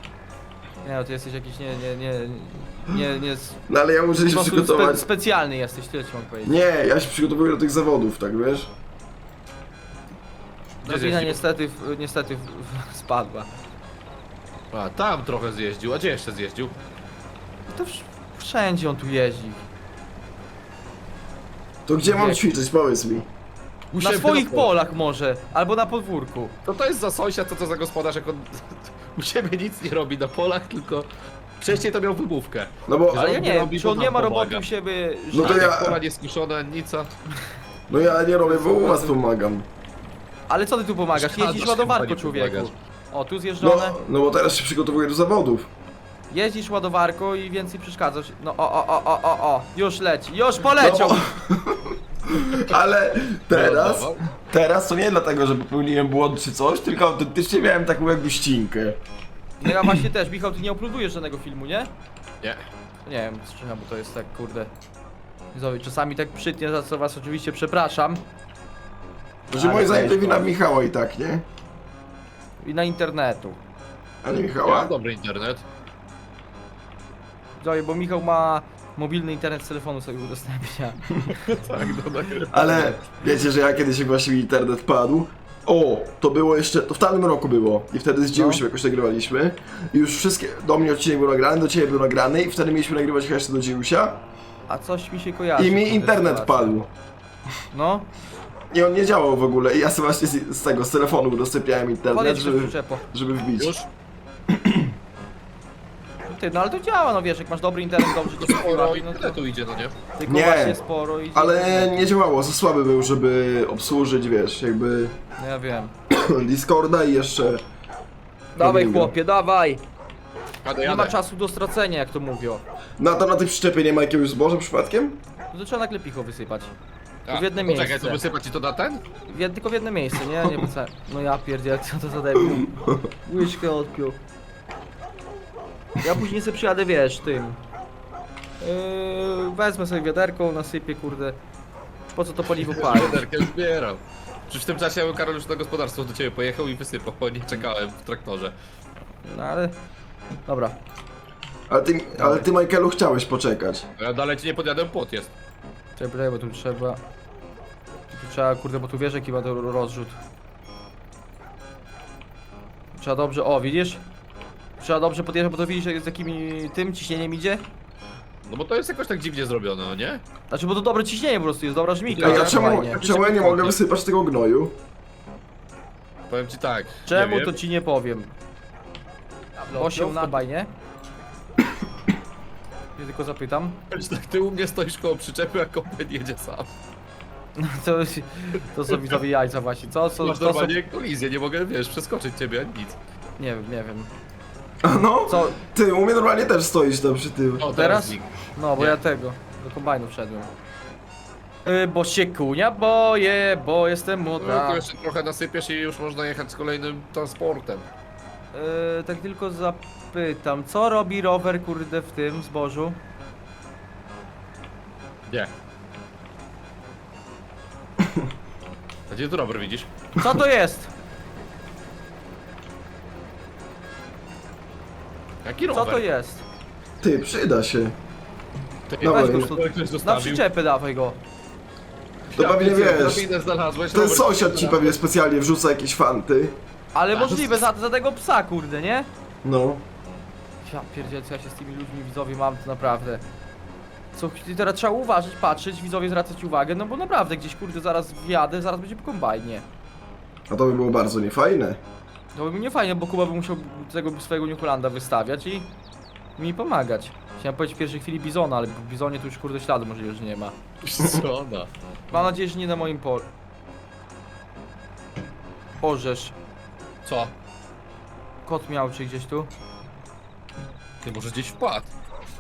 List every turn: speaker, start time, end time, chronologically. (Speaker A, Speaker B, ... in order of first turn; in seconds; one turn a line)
Speaker A: 0.8-3.6
Speaker B: 3.7-5.0
Speaker A: 4.2-6.5
Speaker B: 6.4-8.7
Speaker C: 10.8-11.4
Speaker A: 10.8-13.5
Speaker C: 14.7-16.7
Speaker A: 17.7-19.6
Speaker B: 21.9-23.3
Speaker A: 22.0-22.4
Speaker C: 23.9-24.7
Speaker A: 23.9-26.5
Speaker C: 26.6-31.1
Speaker C: 31.6-34.6
Speaker B: 32.9-33.4
Speaker A: 33.1-35.7
Speaker B: 35.3-36.0
Speaker C: 35.3-37.1
Speaker B: 37.9-39.6
Speaker A: 38.4-39.2
Speaker A: 40.5-44.0
Speaker C: 41.1-42.7
Speaker B: 43.6-45.7
Speaker A: 46.3-51.2
Speaker B: 50.8-59.0
Speaker C: 53.5-54.2
Speaker A: 59.6-61.9
Speaker A: 63.0-64.7
Speaker A: 65.5-68.2
Speaker B: 69.5-71.4
Speaker A: 69.5-70.5
Speaker A: 72.6-73.6
Speaker B: 74.2-74.9
Speaker C: 74.6-75.6
Speaker A: 77.6-83.0
Speaker C: 81.3-82.5
Speaker B: 82.5-94.2
Speaker A: 88.3-88.6
Speaker A: 94.7-96.7
Speaker B: 95.6-96.9
Speaker A: 97.7-98.1
Speaker B: 98.7-103.7
Speaker A: 102.1-103.0
Speaker C: 103.6-103.9
Speaker B: 104.5-104.9
Speaker A: 106.3-109.4
Speaker C: 108.2-109.9
Speaker A: 110.2-112.1
Speaker B: 110.3-110.8
Speaker B: 111.3-115.1
Speaker A: 115.4-115.9
Speaker B: 116.1-117.6
Speaker A: 118.5-119.8
Speaker B: 118.6-119.1
Speaker C: 120.6-121.1
Speaker A: 120.8-122.6
Speaker B: 123.0-125.2
Speaker A: 125.5-126.7
Speaker C: 127.3-129.0
Speaker A: 127.3-128.2
Speaker A: 129.3-134.2
Speaker B: 132.6-133.1
Speaker A: 136.0-137.6
Speaker A: 138.6-141.4
Speaker A: 142.1-143.2
Speaker C: 142.6-148.5
Speaker A: 149.2-149.7
Speaker A: 150.5-150.8
Speaker B: 151.7-153.8
Speaker A: 152.2-152.5
Speaker C: 154.0-155.3
Speaker A: 156.0-157.0
Speaker A: 158.1-160.2
Speaker A: 162.9-164.0
Speaker A: 164.8-167.6
Speaker C: 168.4-170.2
Speaker A: 170.5-173.0
Speaker C: 172.1-173.8
Speaker B: 172.2-174.8
Speaker C: 176.3-177.6
Speaker A: 177.1-178.3
Speaker A: 179.6-180.7
Speaker C: 179.7-180.3
Speaker A: 183.0-183.8
Speaker C: 183.9-186.7
Speaker A: 187.6-190.7
Speaker C: 190.2-193.0
Speaker A: 193.4-194.1
Speaker B: 194.8-197.7
Speaker A: 195.3-195.6
Speaker C: 197.6-199.0
Speaker A: 197.7-200.5
Speaker A: 201.6-204.8
Speaker C: 204.4-207.8
Speaker A: 208.5-213.0
Speaker C: 219.1-219.9
Speaker A: 220.2-220.9
Speaker C: 225.4-226.0
Speaker A: 225.7-226.4
Speaker B: 227.0-227.9
Speaker C: 228.9-230.4
Speaker B: 229.0-229.5
Speaker A: 229.0-231.2
Speaker C: 232.3-234.9
Speaker B: 232.3-233.2
Speaker B: 233.9-236.6
Speaker A: 236.9-239.1
Speaker C: 237.1-237.6
Speaker B: 239.4-239.8
Speaker A: 240.6-243.2
Speaker A: 244.1-249.6
Speaker B: 250.5-251.8
Speaker A: 252.3-255.7
Speaker A: 256.4-260.6
Speaker C: 260.8-261.7
Speaker A: 262.1-263.2
Speaker A: 265.8-266.3
Speaker C: 267.0-267.3
Speaker A: 268.4-269.5
Speaker C: 271.0-271.9